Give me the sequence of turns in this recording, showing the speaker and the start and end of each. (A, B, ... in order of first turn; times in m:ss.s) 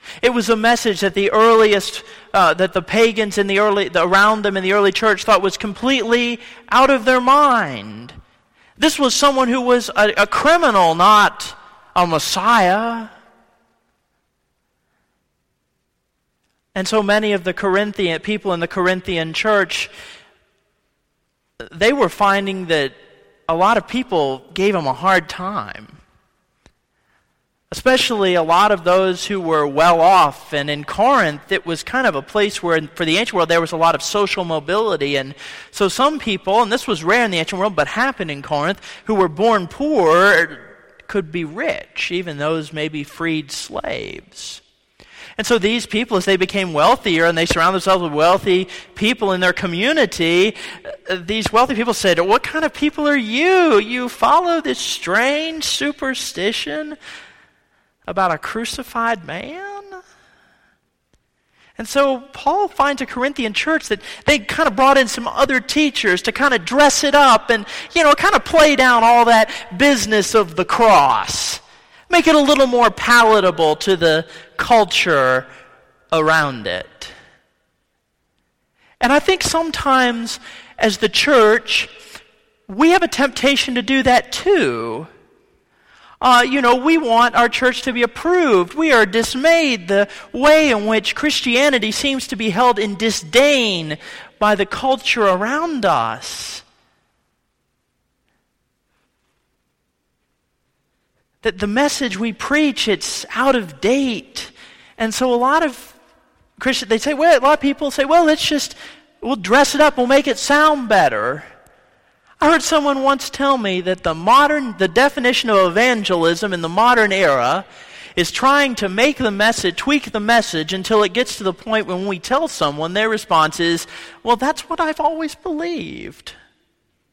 0:00.2-0:08.2 A
0:08.8-0:13.1 A
0:16.8-0:19.9 A
0:21.6-0:23.0 A
0:23.5-0:26.0 A
0:27.7-0:44.6 A
0:45.4-0:57.0 A
0:58.1-1:00.0 A
1:01.8-1:15.5 A
1:16.1-1:17.1 A
1:19.0-1:21.9 A
1:22.7-1:25.1 A
1:26.2-1:36.6 A
1:41.4-1:46.0 A
1:46.6-1:51.5 A
1:52.4-2:06.4 A